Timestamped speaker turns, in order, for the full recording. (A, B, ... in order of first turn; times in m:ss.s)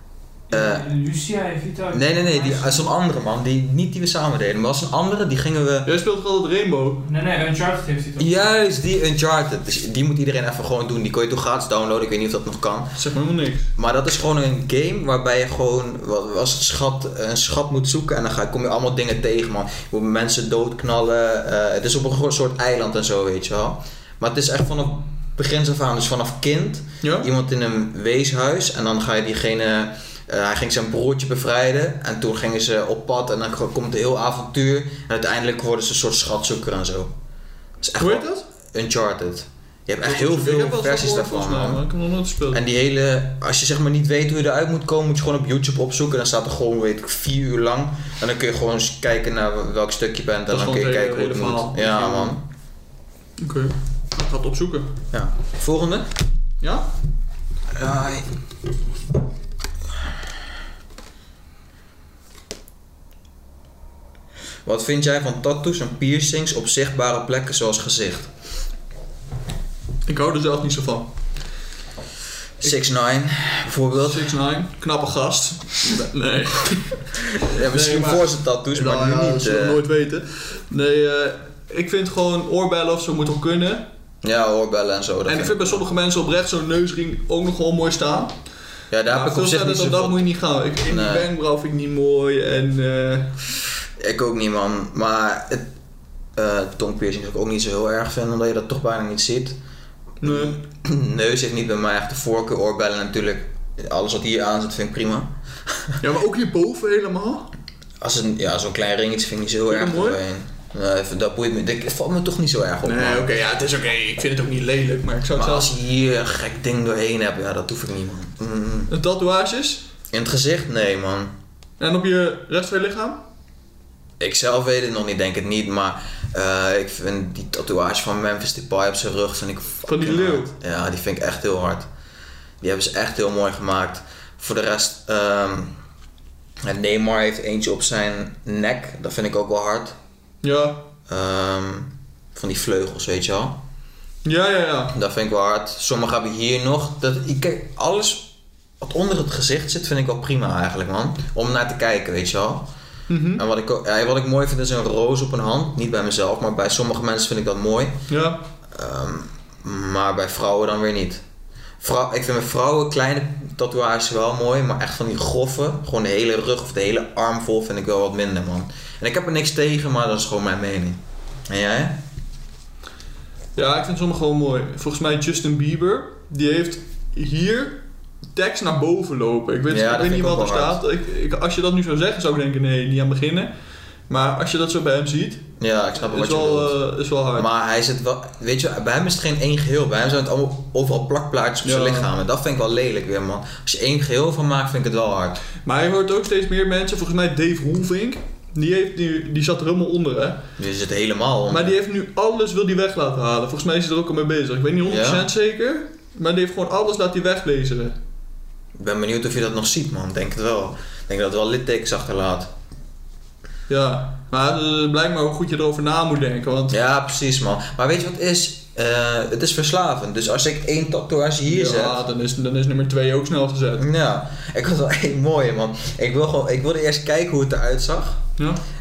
0:00.5-0:02.9 A
0:00.5-0:00.9 B
0:01.9-0:05.9 B
0:05.8-0:07.0 C
0:07.0-0:08.4 A
0:08.2-0:13.0 B
0:13.0-0:13.7 C
0:13.8-0:37.1 B
0:27.0-0:27.3 C
0:37.8-0:41.8 B
0:38.0-0:38.4 C
0:40.0-0:42.6 C
0:42.5-0:52.4 B
0:50.5-0:52.4 C
0:53.4-0:54.9 C
0:55.1-0:56.1 B
0:56.6-0:56.9 C
0:57.7-0:58.3 B
1:04.6-1:08.3 B
1:10.0-1:11.1 C
1:12.6-1:14.4 B
1:13.9-1:23.9 C
1:17.4-1:19.8 B
1:24.2-1:25.8 B
1:25.2-1:28.4 C
1:28.9-1:30.2 B
1:29.1-1:33.4 C
1:30.8-1:31.3 B
1:34.0-1:35.7 B
1:36.4-1:39.6 B
1:40.2-1:40.6 C
1:40.2-1:46.0 B
1:46.0-1:47.5 C
1:48.0-1:53.3 B
1:49.7-1:50.2 C
1:52.8-1:55.7 C
1:55.3-1:58.9 B
1:58.9-1:59.8 C
2:00.1-2:01.3 B
2:01.8-2:03.2 C
2:04.2-2:11.9 B
2:09.8-2:10.5 C
2:12.6-2:15.7 B
2:16.6-2:20.0 B
2:20.4-2:20.9 C
2:21.1-2:23.6 B
2:24.2-2:25.0 C
2:24.9-2:32.7 B
2:33.1-2:33.4 C
2:33.4-2:38.0 B
2:38.1-2:38.4 C
2:38.7-2:41.2 B
2:41.8-2:52.0 B
2:53.6-3:03.5 C
2:59.7-3:00.8 B
3:04.1-3:05.4 C
3:05.6-3:06.8 B
3:06.0-3:07.5 C
3:07.3-3:15.4 B
3:11.6-3:12.1 C
3:15.6-3:20.4 C
3:20.6-3:21.7 B
3:21.5-3:28.0 C
3:24.8-3:25.3 B
3:28.8-3:32.5 B
3:33.7-3:36.8 C
3:36.7-3:42.0 B
3:41.4-3:43.8 C
3:43.8-3:48.2 B
3:48.4-3:48.6 C